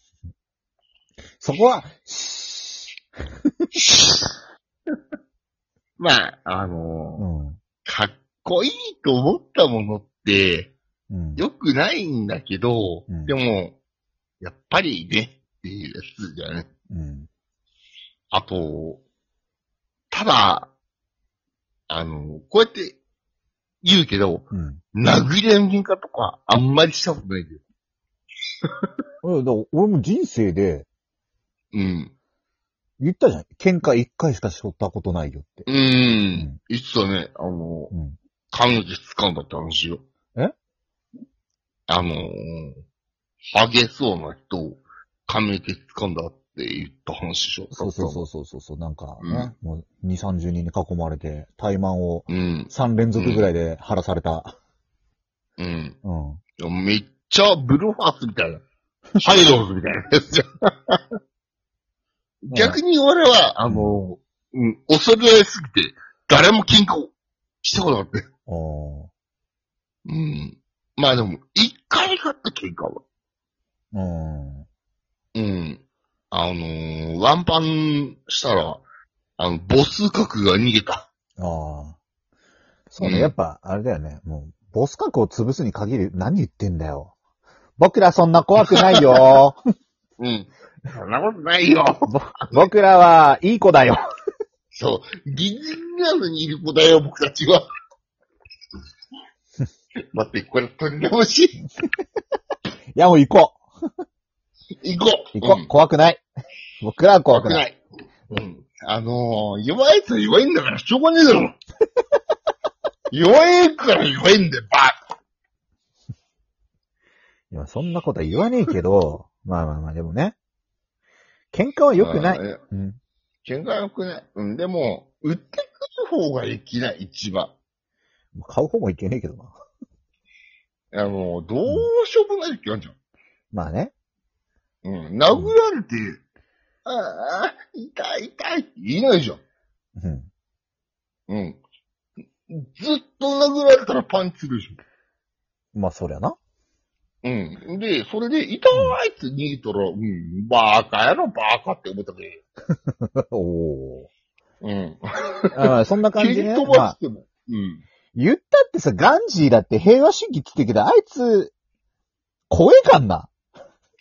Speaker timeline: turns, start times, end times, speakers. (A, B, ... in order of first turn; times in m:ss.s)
0:01.4-0:02.9 A
0:03.8-0:04.3 B
0:06.0-0:07.3 B
0:07.2-0:07.6 A
0:07.8-0:10.7 B
0:11.1-0:11.4 A
0:11.4-0:13.8 B
0:14.4-0:16.7 B
0:16.9-0:17.3 A
0:18.3-0:19.0 B
0:20.1-0:20.7 B
0:21.9-0:23.0 B
0:23.8-0:27.6 B
0:24.5-0:24.8 A
0:29.2-0:30.9 A
0:31.7-0:32.1 B
0:33.0-0:35.7 A
0:35.7-0:37.9 B
0:36.3-0:36.6 A
0:37.9-0:38.2 A
0:38.5-0:40.0 B
0:41.9-0:42.8 B
0:43.5-0:48.2 B
0:47.7-0:54.5 A
0:49.2-0:49.5 B
0:52.3-0:53.5 B
0:55.6-0:56.0 B
0:56.0-0:56.4 A
0:56.6-0:58.6 B
0:59.2-1:01.0 B
1:02.4-1:08.2 B
1:02.5-1:02.8 A
1:03.7-1:04.0 A
1:08.5-1:09.1 A
1:10.1-1:13.0 B
1:13.9-1:14.7 A
1:15.4-1:18.8 B
1:19.4-1:21.1 B
1:21.4-1:22.0 A
1:22.9-1:27.1 A
1:23.0-1:23.4 B
1:27.8-1:29.6 A
1:30.2-1:32.6 B
1:32.1-1:34.0 A
1:34.8-1:37.6 B
1:40.1-1:41.6 B
1:43.0-1:43.6 A
1:44.8-1:45.7 B
1:45.4-1:46.2 A
1:46.8-1:47.6 A
1:47.3-1:47.8 B
1:48.3-1:51.6 B
1:53.1-1:55.0 B
1:57.5-2:00.4 A
2:01.5-2:03.0 A
2:02.0-2:02.6 B
2:03.4-2:07.6 B
2:08.3-2:09.6 A
2:10.9-2:12.9 B
2:13.5-2:13.9 A
2:14.8-2:16.2 B
2:16.8-2:19.4 B
2:20.0-2:20.3 A
2:21.3-2:21.6 B
2:22.5-2:24.8 B
2:25.7-2:26.4 A
2:27.2-2:32.4 B
2:28.7-2:29.0 A
2:32.9-2:34.1 A
2:34.6-2:37.8 B
2:35.6-2:37.0 A
2:38.2-2:41.5 A
2:42.5-2:43.3 A